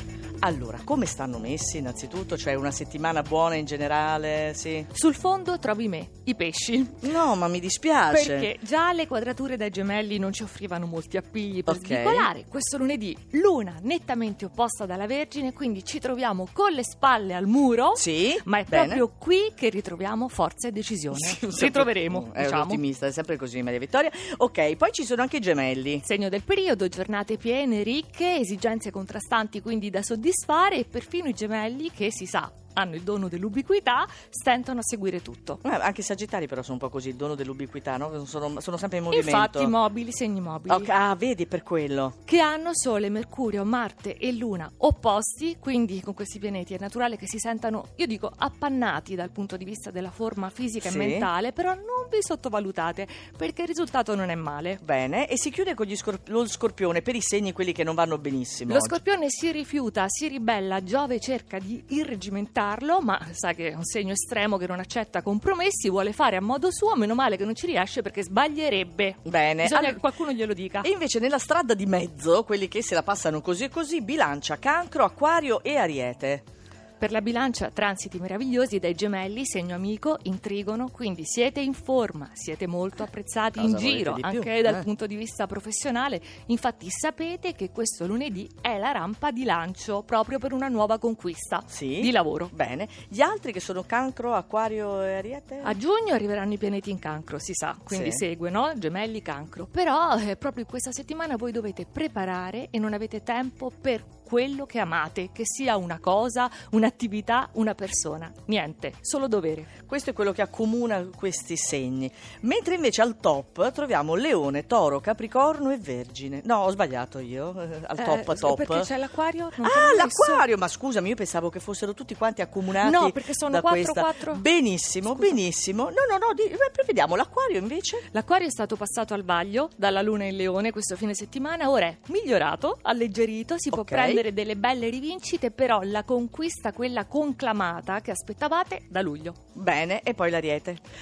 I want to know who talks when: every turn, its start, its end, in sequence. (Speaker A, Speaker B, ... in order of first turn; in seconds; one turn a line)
Speaker A: 0.4-4.9
Speaker B: 4.9-7.0
Speaker A: 7.0-8.5
Speaker B: 8.1-22.8
Speaker A: 11.7-12.3
Speaker A: 17.9-19.0
Speaker A: 21.1-26.0
Speaker B: 26.0-35.6
Speaker A: 35.6-39.7
Speaker B: 39.1-40.9
Speaker A: 40.7-42.2
Speaker B: 42.3-54.8
Speaker A: 50.8-51.3
Speaker A: 54.8-59.0
Speaker B: 58.7-70.9
Speaker A: 69.2-70.0
Speaker A: 70.8-76.5
Speaker B: 77.0-92.5
Speaker A: 83.6-84.8
Speaker A: 91.7-95.8
Speaker B: 95.6-109.7
Speaker A: 97.9-98.2
Speaker A: 109.9-118.9
Speaker B: 118.0-120.5
Speaker A: 119.6-128.1
Speaker B: 122.8-124.4
Speaker B: 125.1-125.4
Speaker B: 128.1-139.4
Speaker A: 133.7-134.2
Speaker A: 139.6-140.8